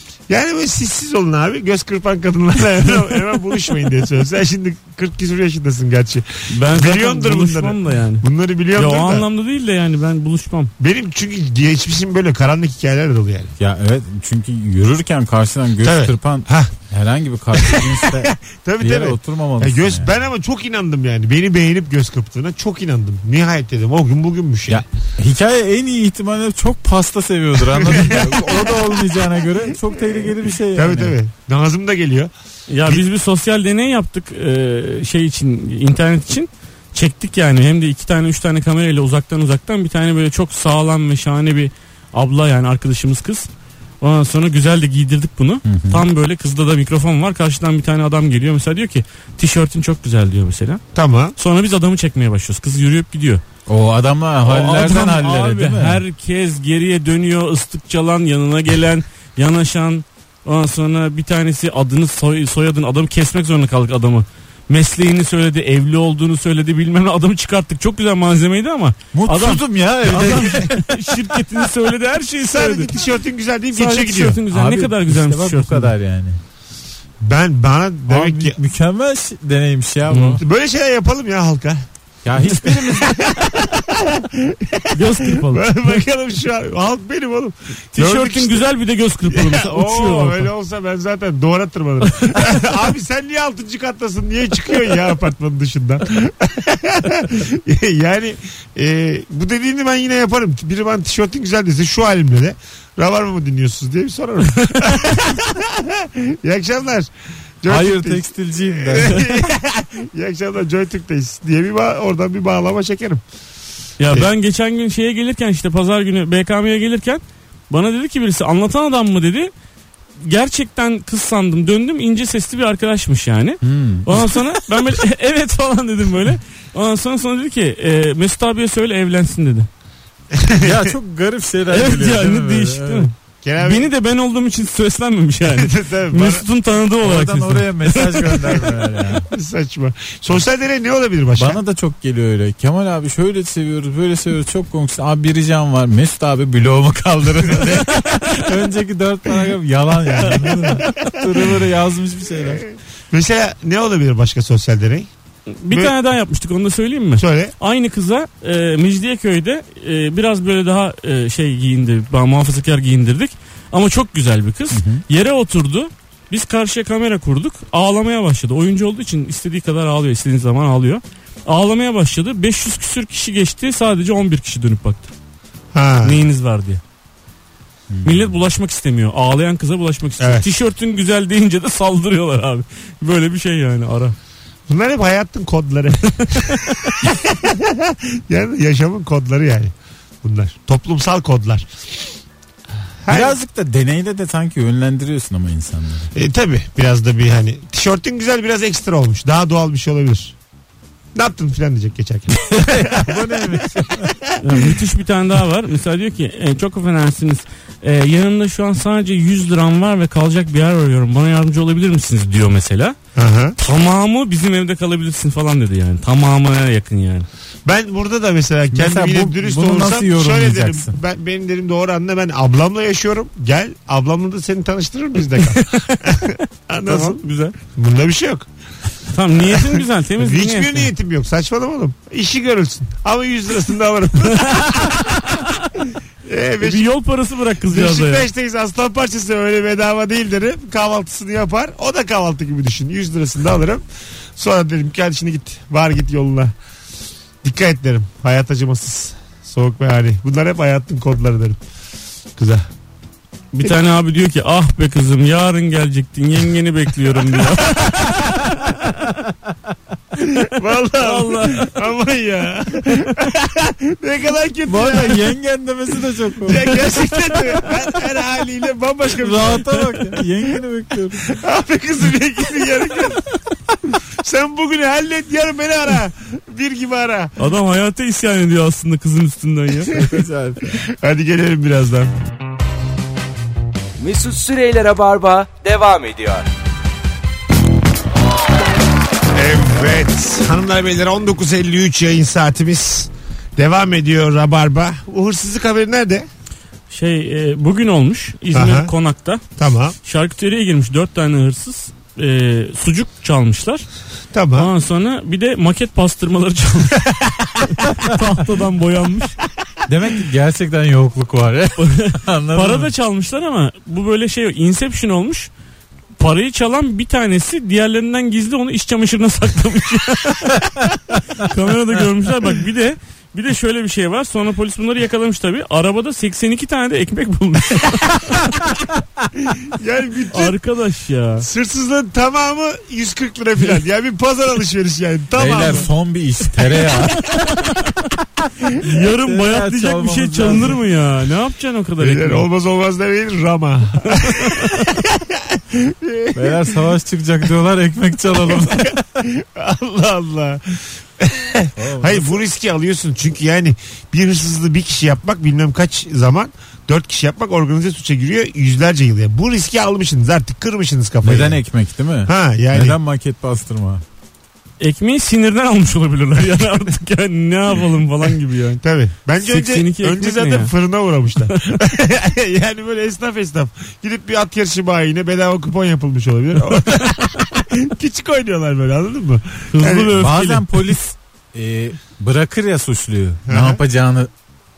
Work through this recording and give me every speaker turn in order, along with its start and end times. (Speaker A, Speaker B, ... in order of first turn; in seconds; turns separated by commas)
Speaker A: 0.3-9.3, Speaker B: 6.5-10.7, Speaker A: 10.8-13.5, Speaker C: 13.6-20.1, Speaker A: 15.8-16.7, Speaker A: 17.5-24.9, Speaker C: 24.7-31.1, Speaker A: 27.7-29.2, Speaker A: 29.9-32.3, Speaker B: 32.7-43.5, Speaker B: 44.0-50.8, Speaker C: 45.7-46.0, Speaker A: 51.0-51.4, Speaker B: 51.4-53.4, Speaker C: 53.7-56.0, Speaker B: 54.4-72.9, Speaker C: 69.1-70.9, Speaker A: 72.4-74.4, Speaker B: 73.7-75.9, Speaker C: 74.5-76.4, Speaker A: 77.2-78.6, Speaker C: 78.1-80.4, Speaker B: 80.1-80.4, Speaker A: 80.4-81.9, Speaker C: 82.2-83.1, Speaker A: 82.5-88.7, Speaker B: 84.9-85.8, Speaker B: 88.0-90.5, Speaker A: 89.3-107.1, Speaker A: 107.6-113.2, Speaker C: 107.7-109.5, Speaker B: 114.0-119.5, Speaker B: 120.2-129.7, Speaker C: 123.6-124.1, Speaker A: 130.3-130.9, Speaker C: 130.6-133.1, Speaker B: 131.7-138.8, Speaker A: 133.4-133.9, Speaker A: 135.5-136.4, Speaker C: 137.0-139.3, Speaker A: 139.3-141.6, Speaker C: 141.4-152.6, Speaker A: 150.0-151.6, Speaker A: 152.4-155.1, Speaker B: 155.6-175.1, Speaker A: 157.2-157.6, Speaker C: 164.7-165.0, Speaker A: 175.7-176.2, Speaker B: 176.0-176.8, Speaker C: 177.9-178.3, Speaker B: 178.0-184.2, Speaker A: 180.2-180.5, Speaker A: 184.7-191.7, Speaker B: 186.2-186.9, Speaker A: 193.0-193.4, Speaker C: 193.1-196.1, Speaker A: 196.2-200.4, Speaker A: 201.2-204.7, Speaker C: 202.5-204.2, Speaker B: 204.4-213.0, Speaker A: 213.2-213.6, Speaker B: 213.6-217.3, Speaker A: 217.7-228.5, Speaker C: 218.7-221.0, Speaker B: 225.6-225.9, Speaker B: 226.9-227.6, Speaker B: 229.1-230.9, Speaker A: 229.5-235.4, Speaker B: 234.4-235.4, Speaker A: 236.2-236.9, Speaker B: 236.6-238.3, Speaker A: 237.7-243.8, Speaker A: 244.4-246.5, Speaker A: 247.4-251.6, Speaker A: 252.4-252.7, Speaker B: 253.5-258.8, Speaker A: 257.4-257.9, Speaker A: 260.2-265.3, Speaker B: 261.0-261.7, Speaker C: 264.7-266.9, Speaker A: 266.4-270.6, Speaker C: 269.2-271.3, Speaker A: 271.2-273.3, Speaker A: 273.9-277.3, Speaker B: 277.4-280.0, Speaker C: 279.9-280.8, Speaker A: 280.7-282.1, Speaker D: 284.0-286.5, Speaker A: 289.3-296.3, Speaker B: 296.9-299.4, Speaker A: 298.5-298.9, Speaker A: 299.6-300.0, Speaker B: 300.1-303.9, Speaker A: 304.3-304.7, Speaker B: 304.5-309.4, Speaker A: 307.0-307.5, Speaker C: 309.9-312.9, Speaker B: 311.8-315.5, Speaker B: 316.2-320.7, Speaker B: 321.4-328.7, Speaker A: 329.4-330.6, Speaker B: 330.3-331.5, Speaker A: 331.4-335.9, Speaker C: 335.4-337.4, Speaker B: 335.6-335.9, Speaker B: 337.3-337.7, Speaker B: 338.8-342.5, Speaker C: 338.8-340.8, Speaker A: 342.0-346.8, Speaker B: 344.1-344.8, Speaker C: 346.3-349.0, Speaker A: 348.4-361.6, Speaker C: 351.8-352.4, Speaker C: 361.2-364.0, Speaker A: 362.2-363.0, Speaker B: 364.8-368.8, Speaker A: 368.8-380.1, Speaker B: 369.4-370.7, Speaker B: 379.7-380.9, Speaker C: 380.1-384.3, Speaker A: 383.5-383.8